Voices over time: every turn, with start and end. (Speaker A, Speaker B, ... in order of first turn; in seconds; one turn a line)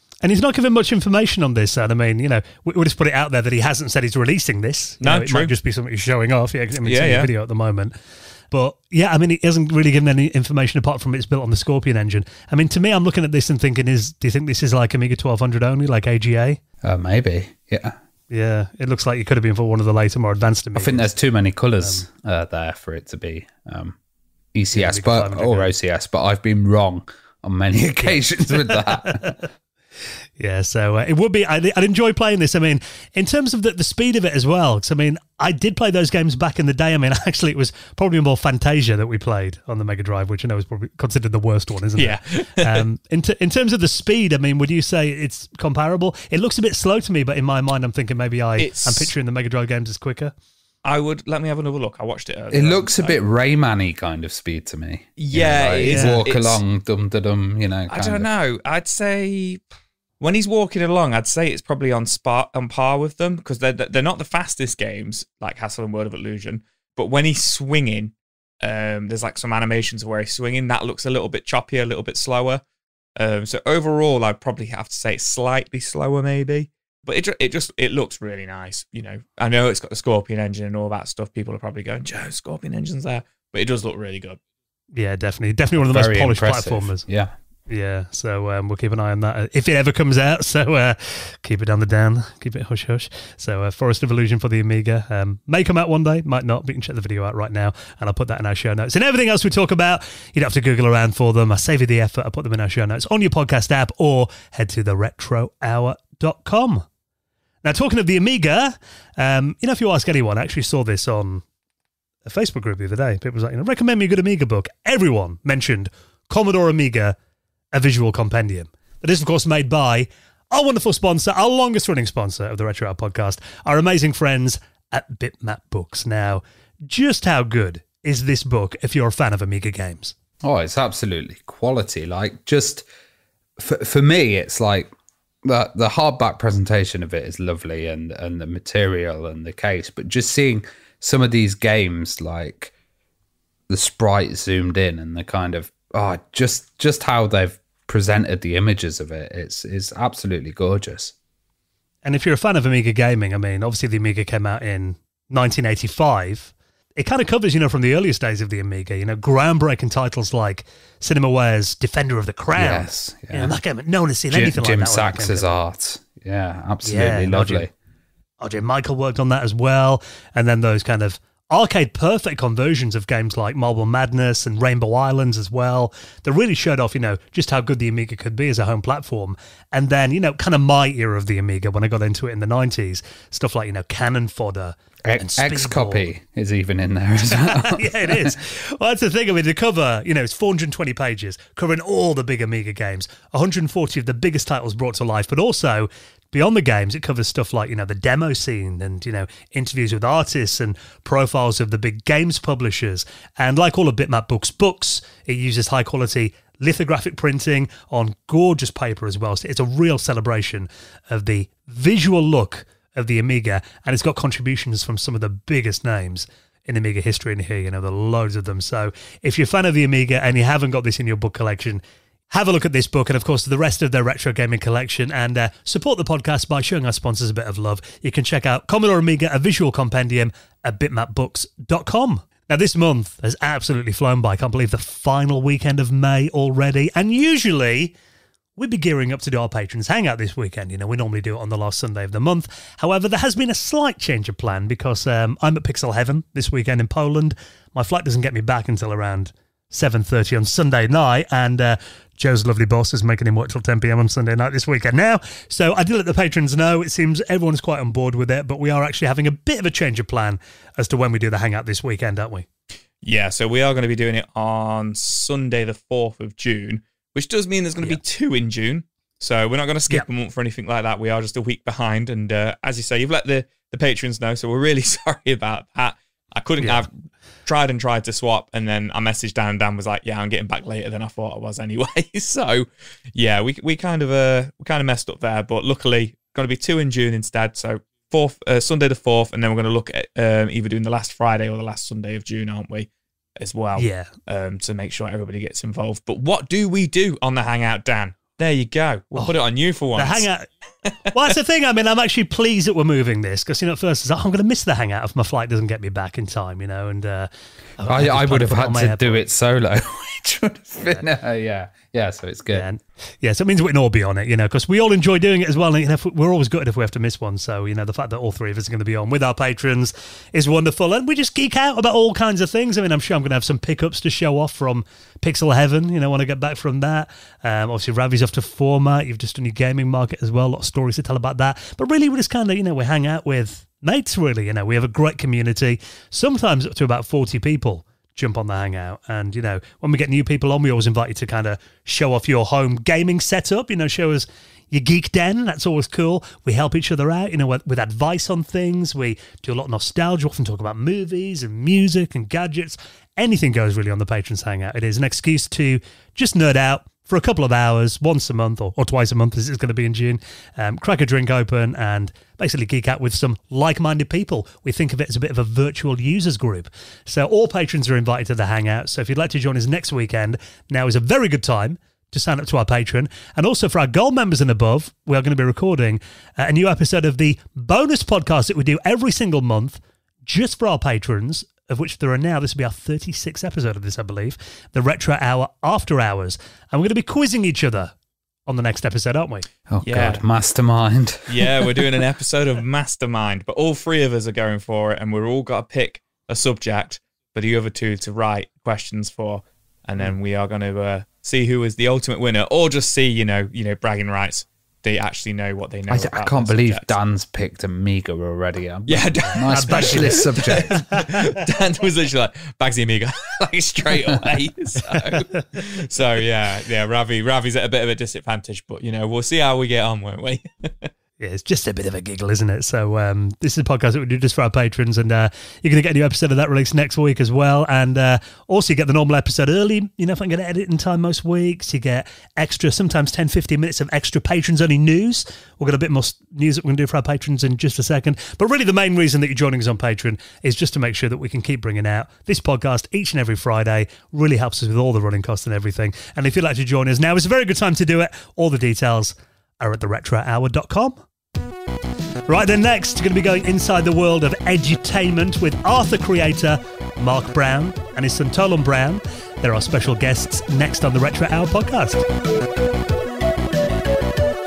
Speaker A: 0.2-7.9
Speaker B: 5.0-5.5
Speaker B: 6.8-7.3
Speaker A: 8.5-16.6
Speaker C: 16.8-17.9
Speaker A: 18.3-21.1
Speaker C: 20.7-23.9
Speaker C: 24.5-29.4
Speaker A: 24.7-25.7
Speaker A: 28.0-29.4
Speaker A: 30.4-50.3
Speaker B: 42.0-42.8
Speaker B: 48.6-49.1
Speaker B: 50.8-53.2
Speaker C: 52.5-58.3
Speaker B: 55.2-56.6
Speaker A: 55.8-56.2
Speaker B: 57.9-59.6
Speaker B: 60.2-72.6
Speaker B: 73.2-84.4
Speaker A: 84.9-87.0
Speaker C: 85.8-87.3
Speaker A: 87.7-106.8
Speaker A: 107.6-111.5
Speaker A: 112.2-117.2
Speaker A: 117.7-130.2
Speaker C: 130.4-132.8
Speaker C: 133.6-134.9
Speaker C: 135.4-142.7
Speaker C: 143.7-151.1
Speaker A: 152.0-165.5
Speaker C: 162.5-163.6
Speaker C: 164.3-167.7
Speaker A: 166.8-167.7
Speaker A: 168.4-186.1
Speaker C: 185.0-188.3
Speaker A: 187.3-237.9
Speaker A: 238.6-262.5
Speaker B: 263.0-276.9
Speaker A: 276.6-276.8
Speaker B: 277.4-300.2
Speaker A: 293.8-294.1
Speaker A: 299.9-300.5
Speaker A: 301.1-309.2
Speaker C: 307.9-312.7
Speaker A: 312.5-387.9
Speaker A: 388.5-389.5
Speaker C: 389.7-391.8
Speaker B: 389.8-390.2
Speaker B: 391.3-406.9
Speaker C: 405.9-411.0
Speaker B: 408.9-420.9
Speaker A: 409.4-411.0
Speaker C: 414.1-414.3
Speaker A: 421.2-451.0
Speaker A: 452.3-462.1